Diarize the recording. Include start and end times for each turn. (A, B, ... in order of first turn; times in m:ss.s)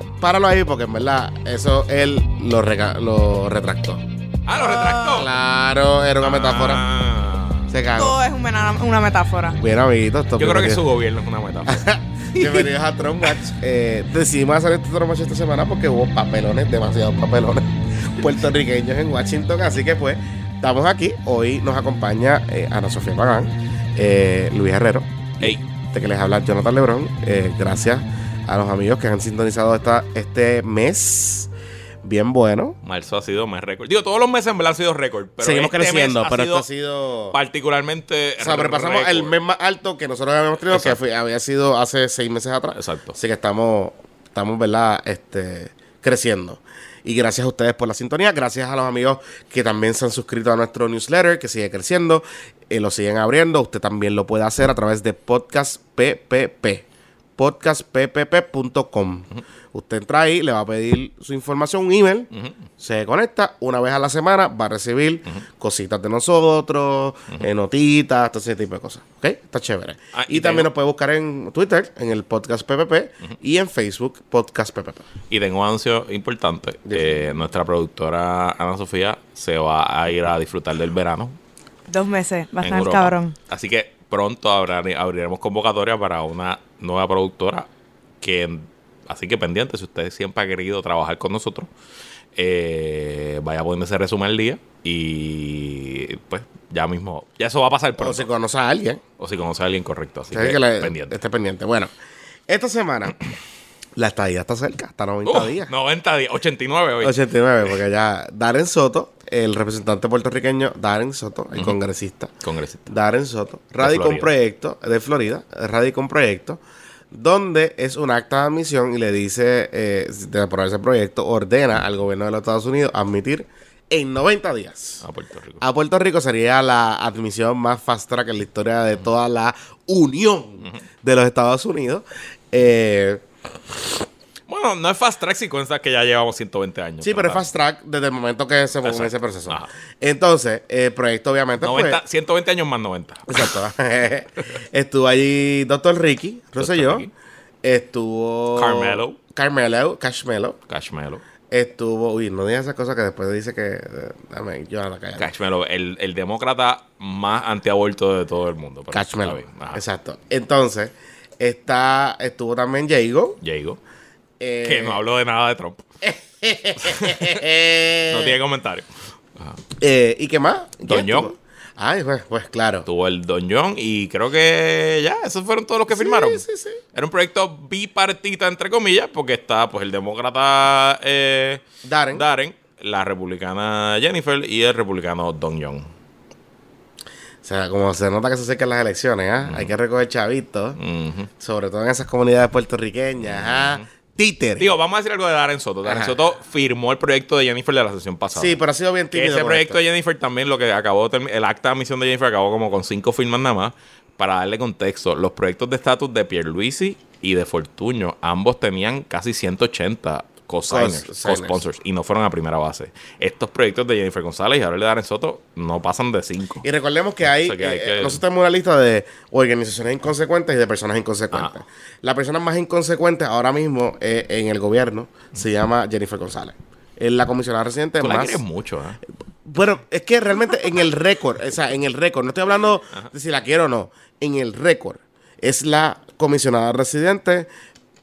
0:00.2-0:04.0 A
0:04.5-0:05.3 B
0:04.6-0:05.2 C
0:05.0-0:06.8 A
0:06.2-0:07.7 B
0:07.7-0:08.2 A
0:07.9-0:09.6 C
0:09.6-0:10.8 A
0:10.4-0:12.7 B
0:11.7-0:31.5 A
0:32.0-0:32.8 A
0:32.8-0:36.7 B
0:35.4-0:37.4 A
0:37.3-0:39.3 B
0:38.4-0:56.8 A
0:40.7-0:41.0 B
0:42.8-0:43.2 B
0:57.4-1:15.1 A
1:10.1-1:10.7 B
1:15.3-1:21.4 B
1:16.9-1:17.3 A
1:21.9-1:23.4 C
1:22.6-1:27.7 B
1:28.2-1:31.7 B
1:32.4-1:38.3 B
1:38.0-1:39.0 A
1:39.2-1:41.2 B
1:40.3-1:41.9 A
1:42.5-1:43.2 A
1:44.0-1:45.7 A
1:45.2-1:47.2 B
1:47.0-1:52.3 A
1:52.4-1:52.9 B
1:52.9-1:56.6 A
1:53.8-1:54.3 B
1:57.1-2:05.0 A
2:05.0-2:05.6 B
2:05.6-2:14.0 A
2:14.5-2:17.4 B
2:17.0-2:22.0 A
2:18.8-2:19.7 B
2:21.6-2:23.5 B
2:23.3-2:27.1 A
2:26.6-2:27.1 B
2:27.6-2:30.6 A
2:28.6-2:29.2 B
2:30.7-2:31.2 B
2:31.5-2:35.3 A
2:35.2-2:39.8 B
2:38.9-2:43.4 A
2:43.4-2:43.8 B
2:44.4-2:45.0 A
2:44.6-2:45.8 B
2:46.0-2:48.4 A
2:46.8-2:47.4 B
2:48.1-2:48.9 B
2:49.8-2:52.9 A
2:50.9-2:51.3 B
2:52.9-2:56.4 B
2:55.9-2:56.8 A
2:56.9-3:01.6 B
3:01.8-3:02.2 A
3:02.1-3:05.9 B
3:07.4-3:10.8 A
3:09.4-3:09.7 B
3:10.8-3:11.3 B
3:11.4-3:14.7 A
3:13.2-3:13.9 B
3:14.6-3:18.6 B
3:15.8-3:16.2 A
3:18.4-3:19.8 A
3:19.1-3:36.6 B
3:30.7-3:31.6 A
3:36.6-3:48.4 A
3:37.4-3:38.2 B
3:48.0-3:49.0 B
3:49.4-3:57.5 A